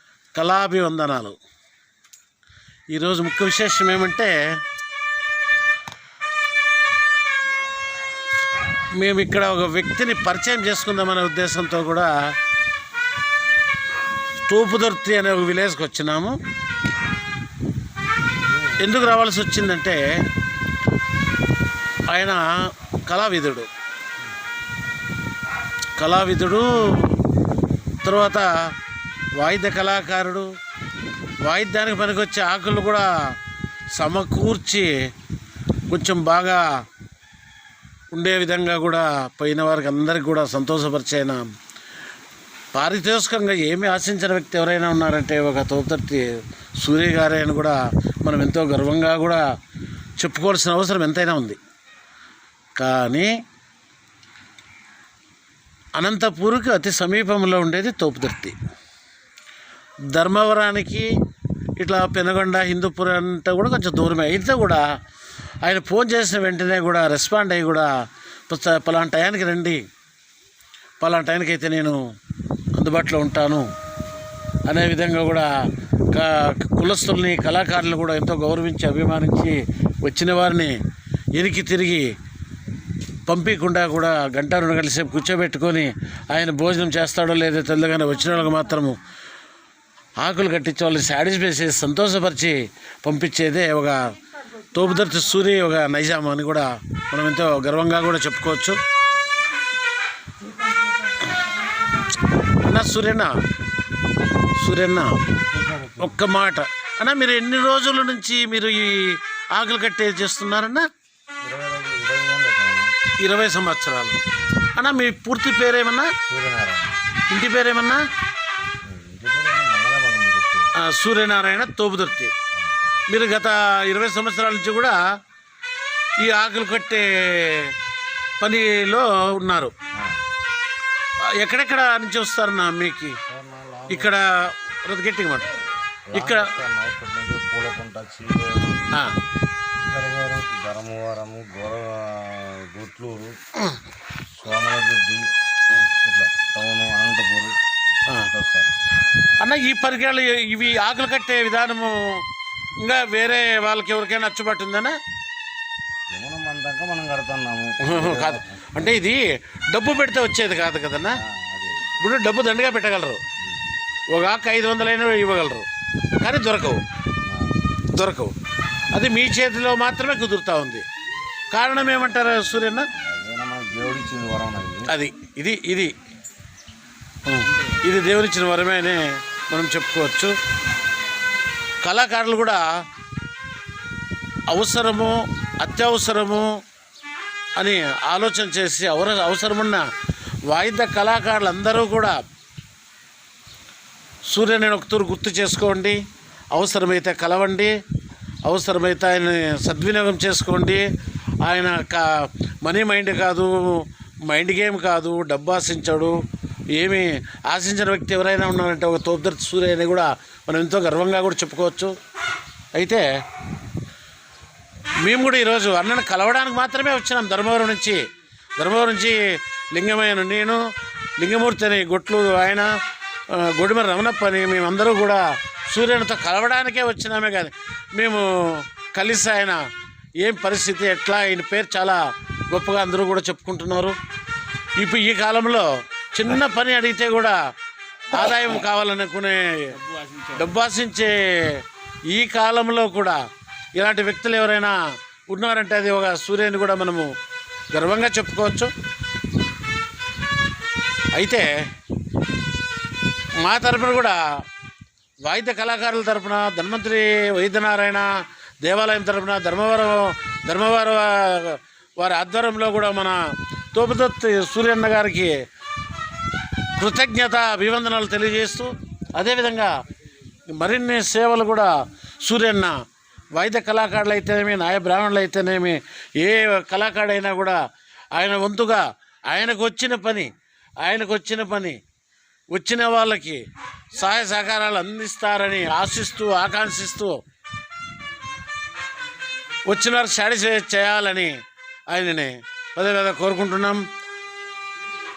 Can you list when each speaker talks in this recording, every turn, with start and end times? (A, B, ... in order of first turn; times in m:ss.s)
0:00.3-0:01.4 A
0:02.9-0:04.3 A
0:09.0-0:12.1 A
0:14.5-0:16.4 A
0:18.8-0:20.0 A
0:22.1-0:22.4 A
0:23.1-0:23.7 A
0:26.0-0:27.2 A
0:28.0-0:28.5 A
0:29.4-0:30.5 A
0:31.4-0:33.1 A
0:34.0-0:34.9 A
0:35.9-0:36.6 A
0:38.1-0:41.4 A
0:42.7-0:46.2 A
0:46.8-0:49.4 A
0:50.2-0:51.6 A
0:52.8-0:53.3 A
0:56.0-0:58.6 A
1:00.1-1:01.1 A
1:01.8-1:04.8 A
1:05.6-1:07.9 A
1:08.5-1:09.8 A
1:11.0-1:12.0 A
1:12.7-1:13.7 A
1:14.7-1:15.5 A
1:16.1-1:20.8 A
1:21.3-1:22.1 A
1:23.3-1:29.0 A
1:30.2-1:34.0 A
1:34.7-1:38.8 A
1:42.5-1:43.4 A
1:44.6-1:45.2 A
1:45.4-1:46.2 B
1:46.0-1:50.8 A
1:51.4-1:52.9 B
1:53.2-1:54.2 A
1:54.7-1:56.1 A
1:56.3-1:56.9 B
1:57.3-1:58.0 A
1:58.8-2:00.7 B
2:00.8-2:02.3 A
2:03.1-2:05.0 A
2:06.2-2:07.7 A
2:08.4-2:09.7 A
2:11.4-2:13.2 A
2:13.2-2:14.2 B
2:13.9-2:15.5 A
2:16.1-2:18.9 B
2:16.1-2:16.5 A
2:19.8-2:23.3 B
2:24.3-2:25.2 B
2:26.0-2:27.5 B
2:28.3-2:28.7 B
2:29.4-2:32.2 A
2:32.8-2:35.0 A
2:36.1-2:38.7 B
2:37.8-2:41.2 A
2:41.2-2:41.9 B
2:42.0-2:43.2 A
2:44.1-2:45.6 A
2:46.2-2:46.8 A
2:47.3-2:47.6 B
2:47.9-2:48.3 A
2:48.9-2:50.8 A
2:51.5-2:52.9 A
2:53.0-2:54.9 B
2:54.9-2:55.9 A
2:57.2-3:00.3 A
3:01.8-3:02.6 A
3:04.5-3:06.5 A
3:07.6-3:09.8 A
3:10.5-3:12.1 A
3:14.3-3:16.0 A
3:16.5-3:17.7 A
3:18.4-3:20.8 A
3:21.4-3:26.2 A
3:26.8-3:31.9 A
3:32.7-3:33.0 A
3:35.0-3:38.0 A
3:38.6-3:39.2 A
3:39.7-3:40.6 A
3:41.2-3:42.7 A
3:43.3-3:49.6 A
3:50.2-3:52.0 A
3:52.5-3:54.0 A
3:54.8-3:57.4 A
3:58.1-4:03.2 A
4:03.7-4:04.8 A
4:05.3-4:07.1 A
4:07.7-4:08.7 A
4:11.1-4:11.5 A
4:13.4-4:14.2 A
4:15.2-4:18.1 A
4:18.6-4:23.2 A
4:23.7-4:25.3 A
4:26.8-4:29.7 A
4:30.5-4:31.7 A
4:32.2-4:32.8 A
4:33.3-4:37.6 A
4:38.1-4:40.3 A
4:40.8-4:41.8 A
4:42.5-4:43.4 A
4:43.9-4:47.2 A
4:49.6-4:51.4 A
4:51.9-4:53.8 A